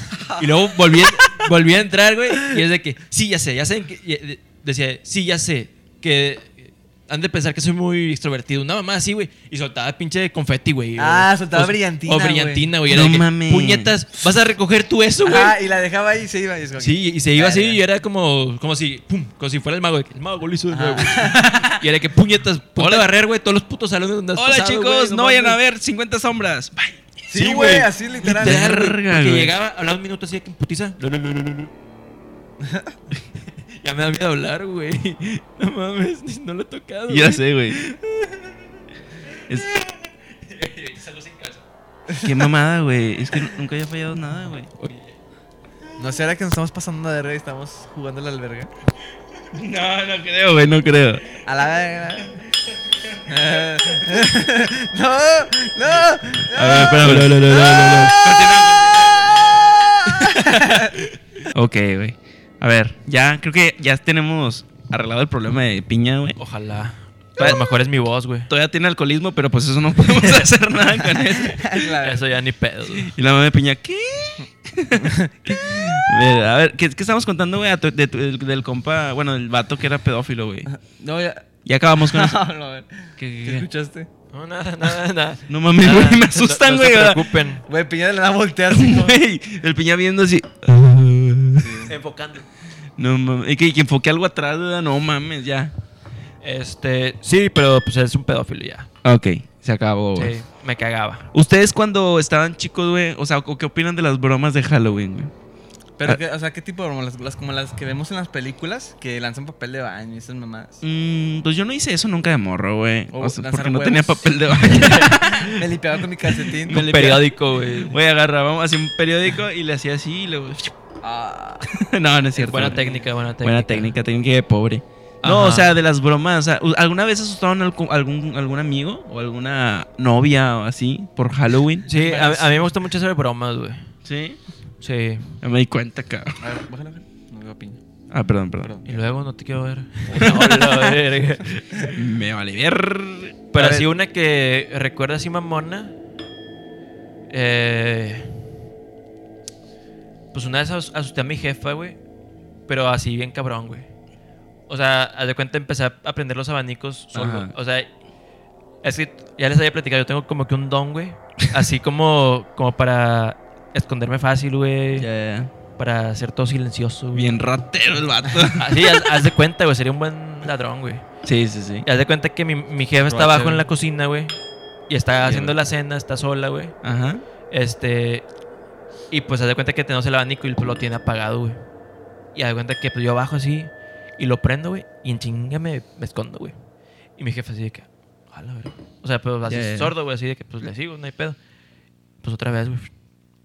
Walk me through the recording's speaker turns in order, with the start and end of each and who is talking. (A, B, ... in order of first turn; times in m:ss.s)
0:00.1-0:01.0 A
0:00.4-0:15.6 B
0:11.0-0:12.7 A
0:12.9-0:13.9 C
0:15.2-0:17.8 A
0:16.8-0:25.6 B
0:20.7-0:21.6 A
0:21.5-0:21.8 C
0:22.8-0:23.1 C
0:24.3-0:29.5 C
0:27.3-0:28.8 A
0:27.3-0:31.7 B
0:32.6-0:32.9 A
0:33.8-0:38.4 B
0:37.1-0:37.8 C
0:39.3-0:39.9 B
0:40.4-0:41.6 B
0:42.1-0:42.5 A
0:42.2-0:44.7 C
0:44.8-0:45.2 B
0:46.0-0:48.7 A
0:49.5-0:51.2 C
0:51.4-0:52.4 A
0:53.2-0:58.2 A
0:56.5-1:00.9 C
0:56.9-0:58.1 B
1:00.0-1:01.0 A
1:01.5-1:06.4 C
1:06.4-1:08.5 B
1:07.4-1:07.7 C
1:08.5-1:12.0 C
1:11.4-1:12.3 A
1:12.0-1:13.1 B
1:13.0-1:20.7 C
1:15.0-1:15.3 A
1:20.7-1:21.5 A
1:21.6-1:22.4 C
1:22.0-1:24.1 A
1:23.2-1:23.7 C
1:24.3-1:27.6 B
1:25.5-1:27.4 C
1:27.7-1:29.2 A
1:28.7-1:31.8 C
1:31.6-1:31.9 A
1:31.9-1:32.4 B
1:33.0-1:35.7 C
1:36.4-1:38.9 B
1:39.0-1:40.3 C
1:40.1-1:41.2 B
1:41.3-1:45.3 C
1:46.0-1:50.8 A
1:50.8-1:55.6 C
1:53.1-1:54.4 A
1:54.6-1:55.3 B
1:55.4-1:56.8 A
1:56.6-2:00.7 C
1:56.7-1:57.9 B
2:01.0-2:01.7 A
2:01.7-2:02.8 C
2:02.4-2:03.9 B
2:02.5-2:03.0 A
2:03.4-2:11.9 C
2:05.2-2:05.7 B
2:11.8-2:13.9 B
2:11.9-2:12.7 A
2:14.0-2:14.4 C
2:14.8-2:15.4 B
2:15.4-2:16.4 C
2:16.4-2:17.8 A
2:18.1-2:18.7 C
2:18.6-2:19.0 A
2:18.8-2:22.0 B
2:20.1-2:20.9 C
2:21.9-2:23.8 C
2:23.5-2:25.9 B
2:27.3-2:28.4 B
2:30.3-2:32.0 B
2:32.7-2:33.9 B
2:34.7-2:37.9 B
2:37.1-2:37.5 C
2:38.8-2:45.1 B
2:45.0-2:45.5 C
2:45.8-2:47.4 B
2:47.1-2:49.2 C
2:48.5-2:51.0 B
2:51.2-2:51.9 C
2:51.8-2:54.3 B
2:53.1-2:53.6 A
2:54.9-2:56.8 B
2:55.2-2:55.6 C
2:56.8-2:57.2 C
2:57.5-2:58.2 B
2:59.1-3:01.6 B
3:02.3-3:06.5 B
3:07.2-3:11.4 B
3:09.5-3:09.9 C
3:12.2-3:12.9 B